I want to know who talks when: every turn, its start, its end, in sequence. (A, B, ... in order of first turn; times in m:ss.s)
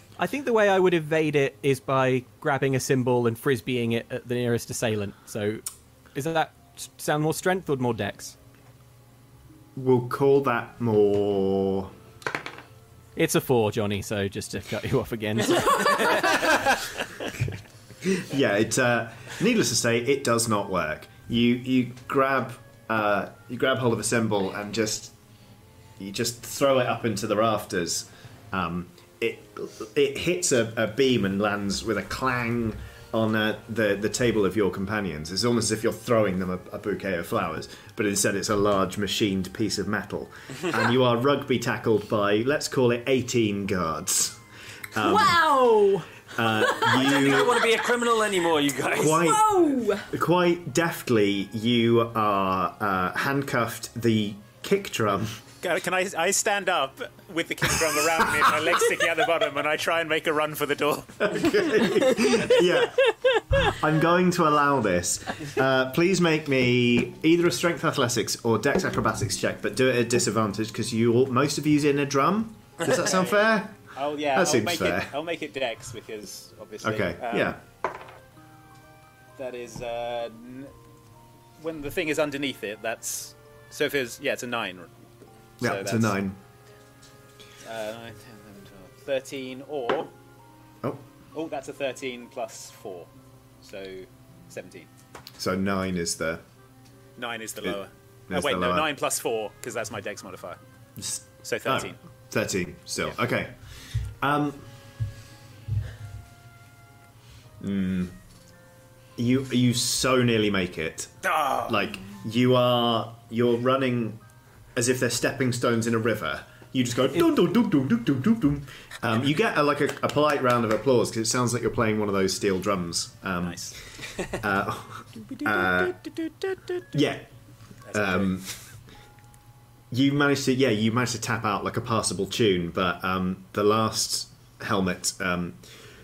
0:00.2-0:05.6 A
0:06.2-0:08.4 A
0:09.8-0:11.9 B
0:13.2-0:16.3 A
0:15.9-0:16.3 C
0:18.0-0:25.1 B
0:26.0-0:44.4 B
0:44.9-0:45.4 B
0:45.0-0:46.1 C
0:46.4-0:47.7 B
0:46.6-0:47.0 C
0:46.9-0:49.2 D
0:48.9-0:50.1 C
0:48.9-0:55.4 B
0:55.6-1:01.8 E
1:01.2-1:13.7 B
1:12.8-1:17.6 E
1:14.3-1:15.1 B
1:16.8-1:17.6 B
1:19.4-1:20.7 E
1:21.6-1:24.9 E
1:25.6-1:26.2 E
1:25.6-1:26.4 B
1:27.6-1:30.1 E
1:31.3-1:33.1 E
1:33.6-1:34.9 E
1:35.4-1:36.4 B
1:37.2-1:40.6 E
1:38.3-1:38.9 B
1:41.0-1:43.5 B
1:41.4-1:42.0 E
1:44.2-1:44.7 B
1:47.6-1:48.2 B
1:49.2-1:54.2 B
1:54.8-2:03.7 B
2:03.4-2:03.7 E
2:04.4-2:06.0 B
2:06.9-2:07.3 B
2:07.9-2:08.4 E
2:07.9-2:08.5 B
2:09.9-2:15.6 B